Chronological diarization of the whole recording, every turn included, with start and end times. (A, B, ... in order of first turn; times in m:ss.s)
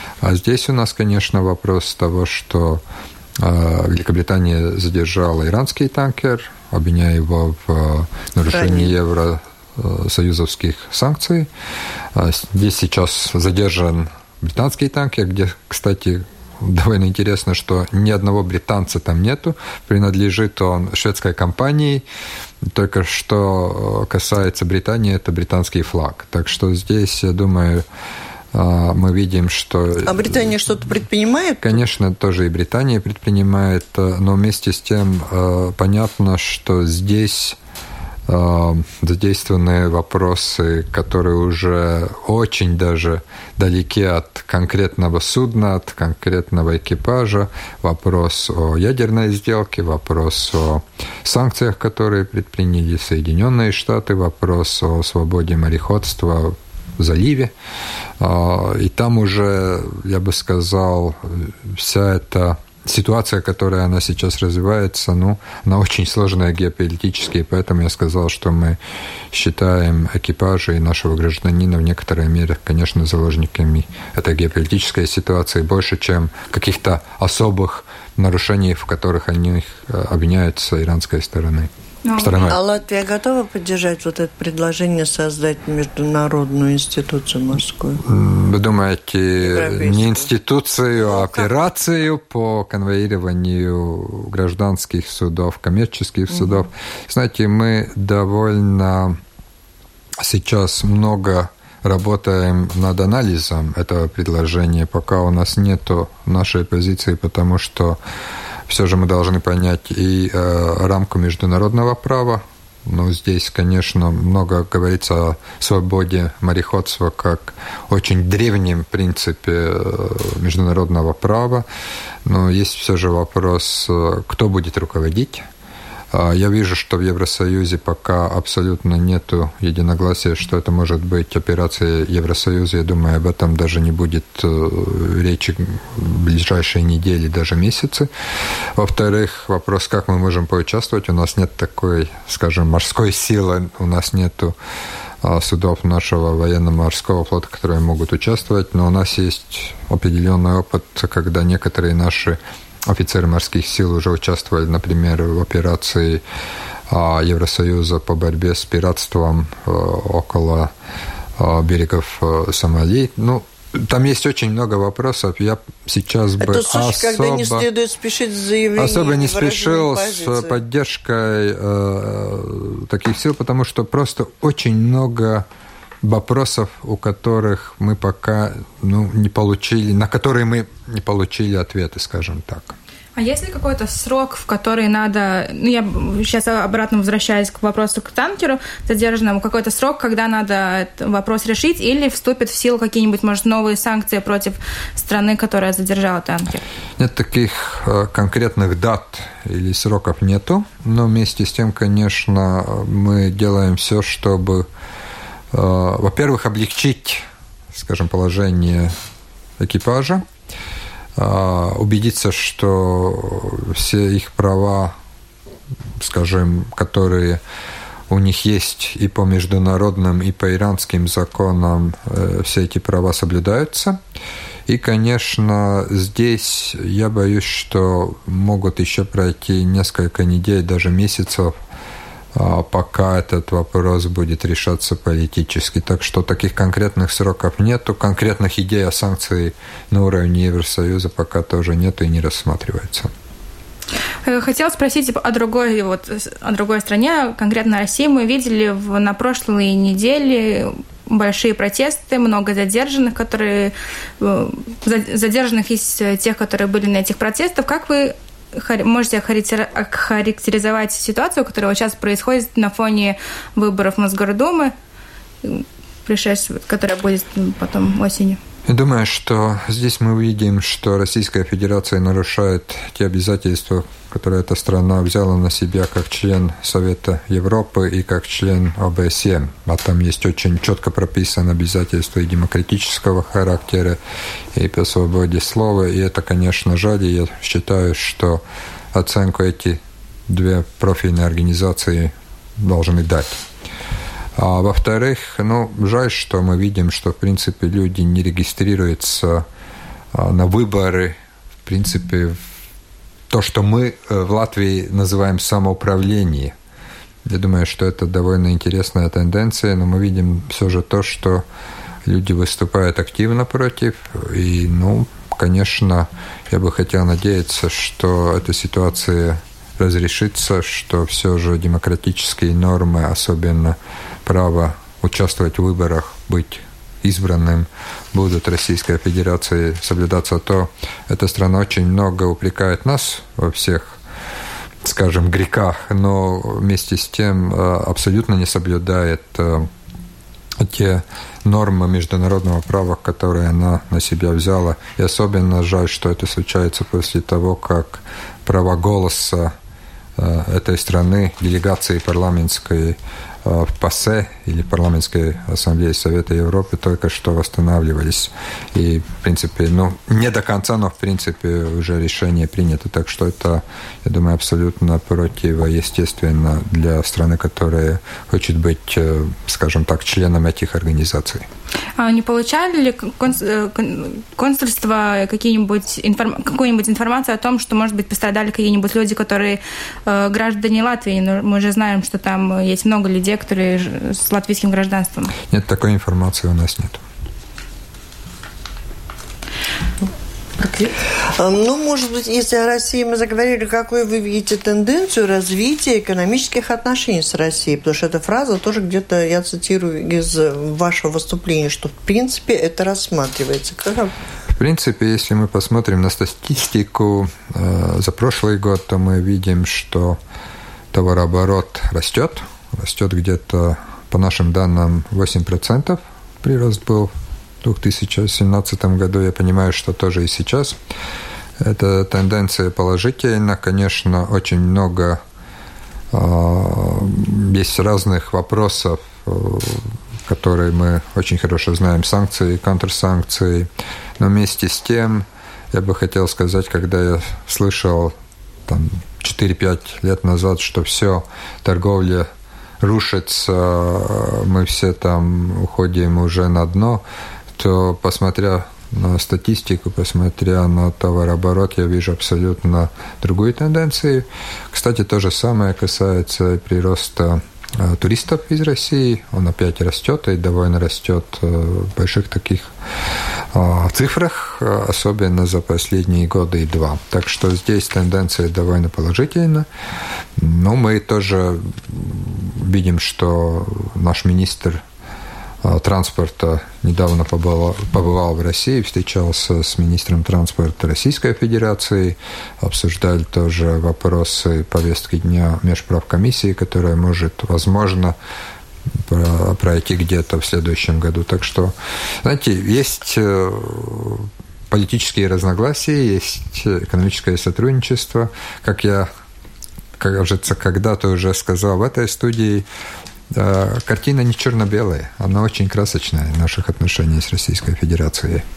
0:00.2-0:02.8 A
0:03.4-0:11.5 A
0:08.5-0:08.9 B
0:12.2-0:22.0 A
0:22.7-0:27.8 A
0:28.5-0:30.5 A
0:30.0-0:31.8 B
0:31.6-0:37.6 A
0:38.3-0:57.5 A
0:58.2-1:08.8 A
1:09.3-1:22.6 A
1:22.1-1:22.4 C
1:22.5-1:28.0 B
1:28.0-1:39.2 A
1:29.4-1:30.3 B
1:31.0-1:31.5 B
1:40.2-1:48.0 A
1:48.7-2:01.6 A
2:02.2-2:05.4 A
2:06.1-2:18.1 A
2:18.8-2:24.6 A
2:25.2-2:36.2 A
2:36.9-2:40.7 A
2:41.4-2:47.6 A
2:46.4-2:50.6 B
2:48.8-2:55.4 A
2:56.0-3:02.8 A
3:03.2-3:16.6 C
3:17.0-3:24.7 A
3:25.5-3:28.9 A
3:29.6-3:30.3 A
3:31.2-3:35.0 A
3:36.0-3:37.4 A
3:38.1-3:44.0 A
3:44.7-3:51.5 A
3:52.3-4:03.1 A
4:04.2-4:24.7 C
4:25.4-4:28.4 C
4:28.7-4:44.0 A
4:44.6-4:48.4 A
4:48.9-4:53.4 A
4:54.4-4:59.4 A
5:00.1-5:02.4 A
5:03.3-5:06.5 A
5:07.3-5:11.4 A
5:12.0-5:34.0 A
5:34.8-5:39.7 A
5:40.6-5:49.5 A
5:50.2-6:11.5 A
6:12.0-6:25.3 C
6:25.5-6:27.0 A
6:31.3-6:44.1 B
6:44.5-6:50.2 A
6:50.9-6:57.1 A
6:57.6-7:00.8 A
7:01.6-7:05.2 A
7:06.1-7:18.1 A
7:18.7-7:22.3 A
7:22.8-7:27.0 A
7:27.6-7:42.7 A
7:43.5-7:49.7 A
7:50.4-7:54.8 A
7:55.6-8:08.2 A
8:09.1-8:19.1 A
8:20.0-8:22.7 A
8:23.3-8:28.4 A